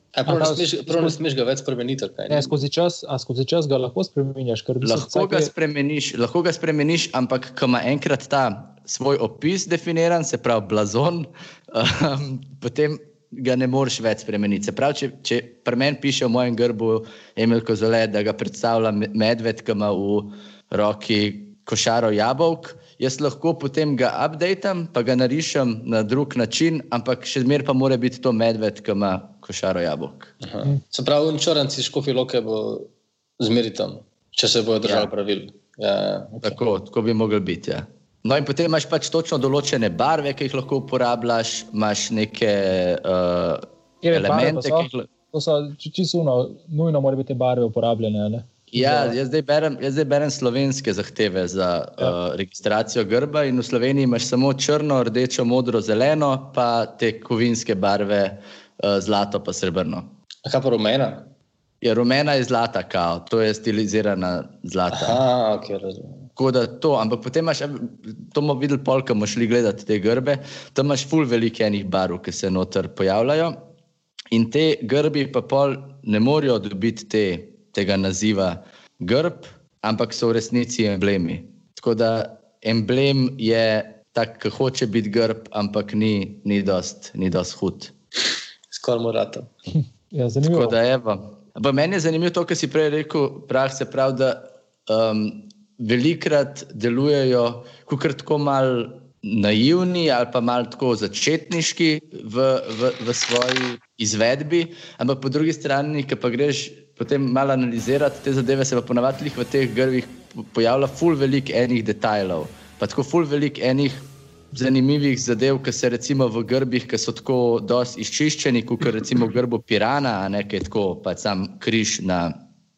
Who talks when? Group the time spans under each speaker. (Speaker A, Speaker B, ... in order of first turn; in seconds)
Speaker A: 0.1-2.5, 30.4-36.6, 60.5-61.3, 64.9-66.3, 88.7-89.5
Speaker B: 0.3-1.2, 2.3-5.5, 44.0-49.2, 90.1-90.8
Speaker C: 4.8-30.3, 34.9-35.1, 36.4-45.1, 48.7-60.1, 61.8-65.2, 66.4-73.6, 74.3-87.9, 90.4-122.4